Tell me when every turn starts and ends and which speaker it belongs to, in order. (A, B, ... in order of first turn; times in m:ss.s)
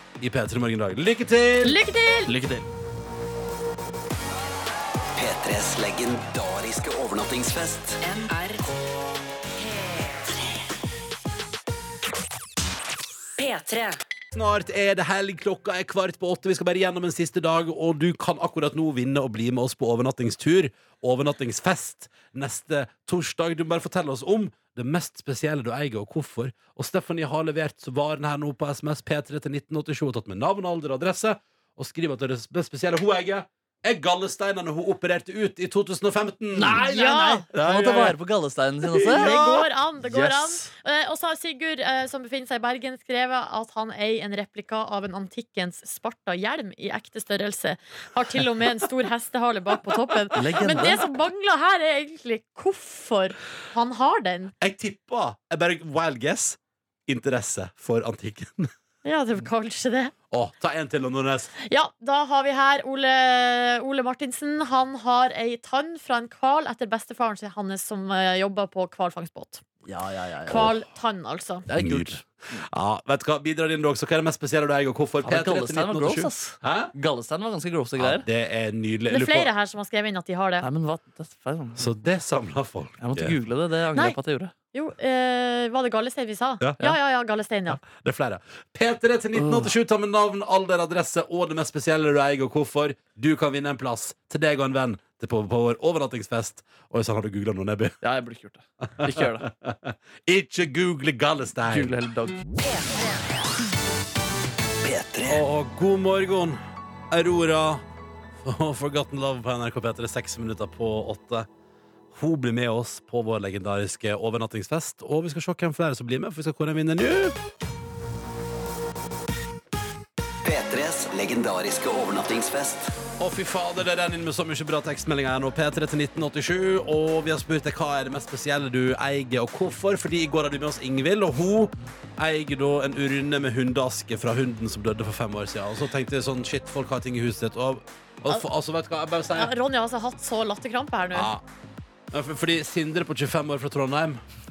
0:00.2-0:01.8 A
0:01.6-0:02.3 B
0:02.3-0:02.6 C
0:05.2-0:08.0 D
0:08.0-0:08.6 E
0:09.6-0:10.3 E
0:13.4-0:14.0 E
0:14.3-0:36.9 A
0:36.5-0:39.4 C
0:36.8-0:37.4 B
0:37.5-0:38.2 A
0:38.9-0:39.7 A
0:39.1-0:54.5 B
0:40.0-0:40.7 C
0:50.3-0:51.0 C
0:54.6-0:58.7 A
0:59.0-1:00.1 B
1:00.3-1:01.5 A
1:01.6-1:09.6 B
1:09.9-1:10.7 C
1:10.4-1:11.6 B
1:11.7-1:12.6 C
1:11.7-1:16.9 A
1:15.2-1:18.2 C
1:18.0-1:19.5 A
1:19.1-1:20.6 B
1:20.6-1:21.9 C
1:21.8-1:23.3 A
1:23.0-1:24.5 C
1:24.7-1:27.8 B
1:27.8-1:38.0 A
1:29.4-1:29.7 C
1:38.0-1:39.5 C
1:39.0-1:41.9 A
1:41.7-1:42.4 C
1:44.8-1:45.4 D
1:45.2-1:46.6 A
1:47.1-1:47.8 A
1:48.4-1:51.5 A
1:52.1-1:57.4 A
2:00.4-2:02.9 D
2:03.2-2:19.5 A
2:19.3-2:21.3 B
2:21.1-2:21.4 A
2:22.1-2:24.2 A